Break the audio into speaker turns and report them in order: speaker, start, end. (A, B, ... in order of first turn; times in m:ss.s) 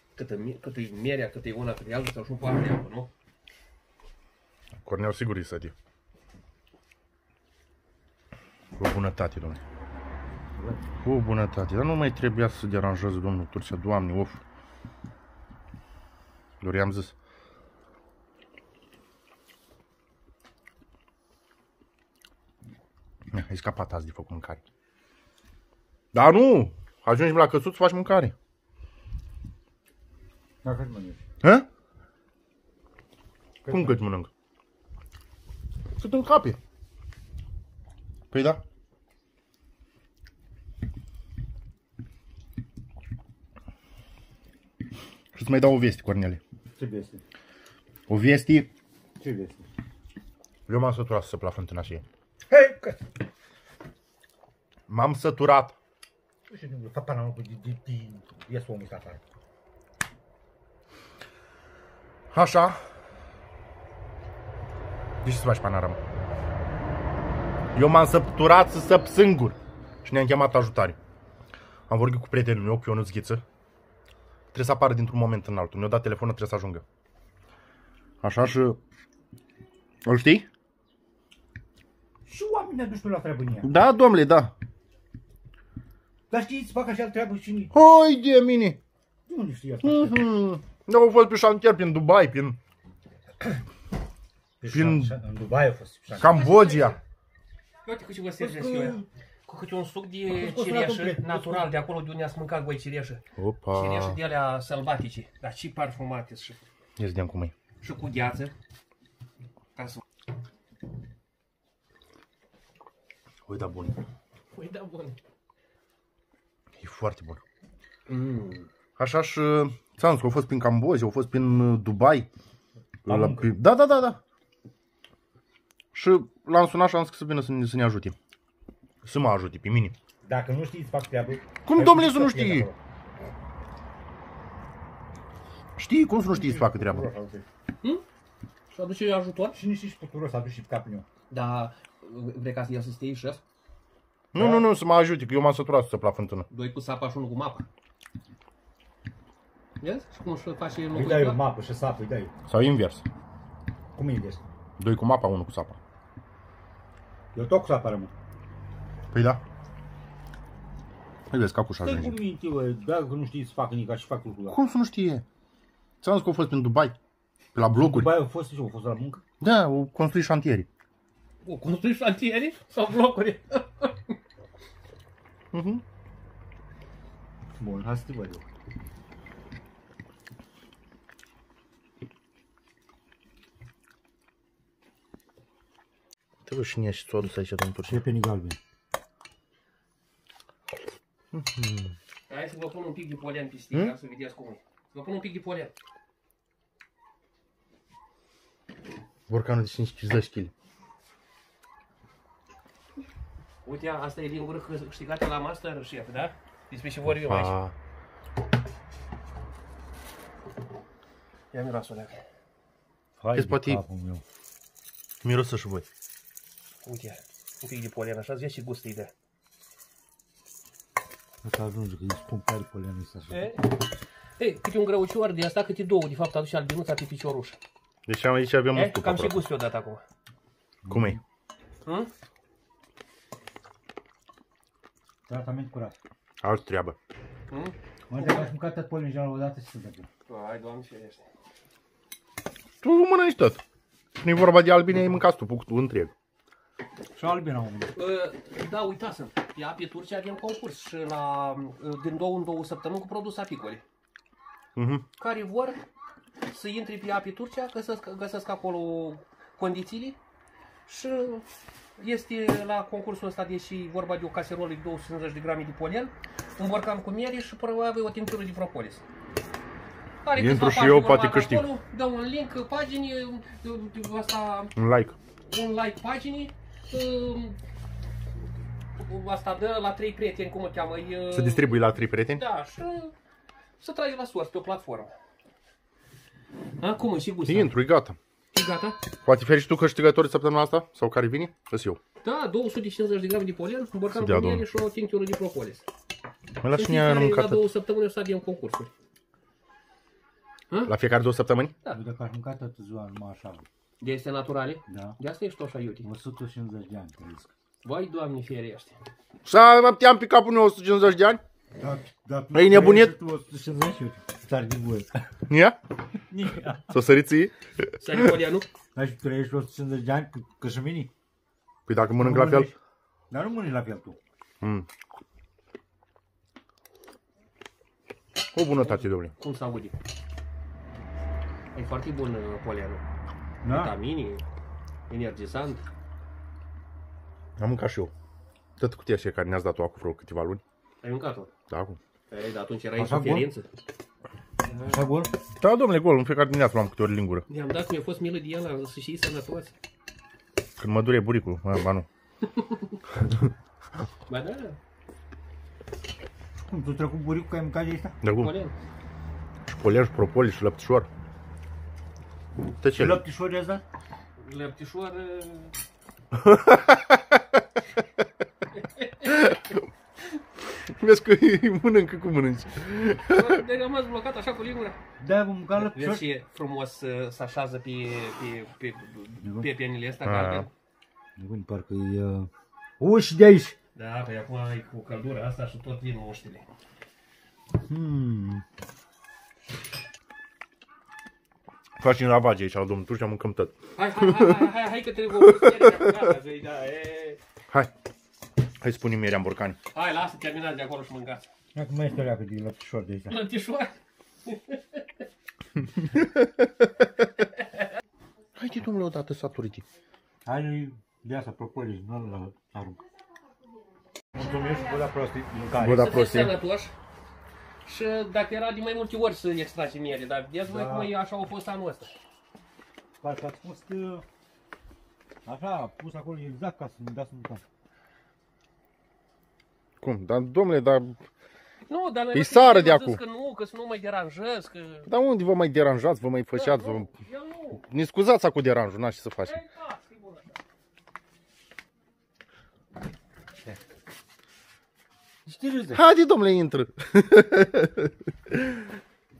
0:00.1-0:03.1 A
0:04.8-0:05.7 B
0:08.8-0:09.6 B
0:10.6-0:10.8 C
0:11.0-0:14.4 B
0:16.6-0:17.1 B
0:23.3-0:24.6 B
0:26.1-0:28.3 B
0:30.6-0:31.2 C
0:31.4-0:31.7 B
0:33.6-0:34.3 B
0:33.6-0:33.9 C
0:36.0-0:36.6 B
0:38.3-0:38.6 B
0:45.3-0:46.4 B
0:46.8-0:47.2 C
0:48.1-0:48.7 B
0:49.2-0:49.7 C
0:50.7-0:52.0 B
0:52.5-0:53.0 C
0:54.9-0:55.8 B
0:56.5-0:59.2 C
1:02.3-1:02.8 B
1:05.2-1:06.0 B
1:07.7-1:11.0 B
1:11.9-1:13.4 B
1:14.5-1:16.8 B
1:18.2-1:18.8 B
1:20.0-1:20.5 B
1:22.3-1:23.7 C
1:23.6-1:24.5 B
1:26.3-1:27.7 C
1:27.7-1:28.8 B
1:29.3-1:30.2 C
1:29.8-1:32.6 B
1:34.6-1:36.3 C
1:34.7-1:35.1 B
1:36.1-1:37.0 B
1:36.2-1:37.0 A
1:37.8-1:46.6 A
1:38.4-1:39.0 C
1:40.3-1:41.7 C
1:43.4-1:44.2 B
1:47.0-1:47.5 B
1:47.8-1:48.5 A
1:49.8-1:50.0 A
1:53.5-1:54.0 B
1:54.5-1:55.2 A
1:56.8-1:57.4 B
1:58.1-1:58.7 A
1:59.0-2:02.3 B
2:03.0-2:03.5 C
2:03.0-2:04.2 B
2:05.9-2:08.1 B
2:09.0-2:10.0 B
2:10.2-2:12.8 C
2:11.6-2:12.7 B
2:15.8-2:17.1 B
2:16.3-2:17.4 C
2:18.7-2:19.6 A
2:19.5-2:21.1 C
2:21.3-2:23.4 A
2:24.3-2:26.5 B
2:24.4-2:24.7 C
2:26.5-2:27.7 A
2:29.8-2:31.4 A
2:30.9-2:32.3 C
2:32.5-2:33.0 B
2:33.9-2:34.4 C
2:34.8-2:35.8 B
2:37.3-2:38.1 C
2:39.1-2:39.4 B
2:41.3-2:42.2 B
2:41.8-2:44.6 C
2:44.5-2:45.2 B
2:46.0-2:47.0 B
2:47.5-2:48.1 B
2:47.7-2:49.2 C
2:49.4-2:50.7 B
2:51.4-2:54.2 A
2:55.5-2:55.8 B
2:57.6-2:58.4 C
3:06.5-3:08.0 B
3:07.9-3:08.6 C
3:11.3-3:12.0 B
3:12.3-3:15.7 A
3:19.3-3:20.5 B
3:23.6-3:27.5 A
3:27.0-3:27.7 B
3:31.5-3:32.2 A
3:33.2-3:34.2 C
3:33.3-3:33.8 B
3:35.2-3:35.8 B
3:36.8-3:39.1 A
3:41.4-3:43.5 C
3:43.3-3:43.7 A
3:44.4-3:47.6 A
3:48.1-3:49.4 B
3:48.7-3:50.0 A
3:50.8-3:51.2 C
3:50.9-3:51.2 B
3:51.8-3:52.1 A
3:55.3-3:55.9 C
3:56.4-3:57.0 B
3:57.5-3:58.5 A
3:58.1-4:00.1 C
4:00.3-4:01.2 A
4:02.8-4:03.6 B
4:04.2-4:06.1 B
4:07.2-4:07.9 C
4:07.9-4:13.8 A
4:14.8-4:15.0 B
4:15.2-4:15.8 A
4:16.5-4:20.2 A
4:20.9-4:21.4 A
4:22.0-4:29.0 A
4:30.2-4:34.7 A
4:30.3-4:31.7 B
4:34.8-4:35.2 B
4:35.5-4:37.6 A
4:39.0-4:43.1 A
4:41.3-4:42.4 B
4:43.8-4:45.1 A
4:46.8-4:47.7 A
4:47.4-4:48.2 B
4:48.5-4:49.0 A
4:49.2-4:52.0 B
4:52.2-4:55.8 A
4:54.1-4:54.6 B
4:56.6-4:57.6 B
4:56.7-4:58.9 A
5:00.9-5:01.8 B
5:01.9-5:03.6 C
5:04.0-5:06.1 A
5:04.9-5:05.2 C
5:06.0-5:07.5 C
5:07.8-5:09.0 A
5:09.4-5:11.4 B
5:11.8-5:15.2 C
5:12.5-5:13.1 B
5:15.5-5:15.8 B
5:16.3-5:16.9 C
5:16.9-5:18.2 B
5:18.0-5:18.7 A
5:18.9-5:21.1 C
5:21.9-5:22.7 B
5:22.2-5:22.7 C
5:23.3-5:24.2 C
5:24.6-5:24.9 B
5:28.5-5:29.3 B
5:28.8-5:30.0 A
5:31.7-5:33.0 A
5:33.6-5:34.0 C
5:33.6-5:34.4 A
5:35.1-5:35.8 A
5:37.6-5:38.1 B
5:38.8-5:40.6 B
5:41.0-5:41.5 A
5:41.7-5:42.0 B
5:42.3-5:43.7 A
5:43.0-5:43.5 C
5:44.8-5:45.3 C
5:45.6-5:47.4 B
5:47.5-5:49.7 A
5:50.8-5:52.1 B
5:52.4-5:53.0 A
5:53.2-5:53.5 B
5:54.3-5:54.8 A
5:56.6-5:58.2 C
5:58.2-5:58.5 B
5:58.3-5:58.8 A
5:59.6-6:01.1 B
6:02.8-6:03.2 B
6:02.9-6:03.8 C
6:04.4-6:05.7 A
6:06.3-6:07.6 B
6:08.7-6:09.4 A
6:09.2-6:09.9 B
6:10.7-6:13.6 B
6:13.3-6:15.0 A
6:15.2-6:16.2 C
6:15.7-6:20.7 A
6:19.4-6:19.7 C
6:20.2-6:20.7 B
6:21.4-6:22.5 C
6:23.0-6:23.7 C
6:23.9-6:26.7 A
6:27.8-6:28.6 C
6:32.0-6:34.7 B
6:34.0-6:37.4 A
6:35.4-6:36.2 B
6:38.8-6:39.8 B
6:39.9-6:41.5 A
6:41.7-6:43.4 C
6:43.3-6:45.1 A
6:46.1-6:47.1 B
6:47.4-6:47.9 A
6:48.6-6:49.8 B
6:50.4-6:53.0 C
6:54.3-6:56.3 C
6:55.8-6:56.6 B
6:55.8-6:56.9 A
6:57.8-7:02.2 A
7:00.7-7:01.1 C
7:03.2-7:04.2 C
7:05.4-7:07.6 C
7:10.0-7:11.2 B
7:11.9-7:15.1 A
7:12.3-7:13.2 B
7:15.1-7:17.1 B
7:16.5-7:17.8 A
7:17.8-7:19.6 B
7:19.4-7:20.6 A
7:25.4-7:26.0 C
7:25.9-7:28.9 B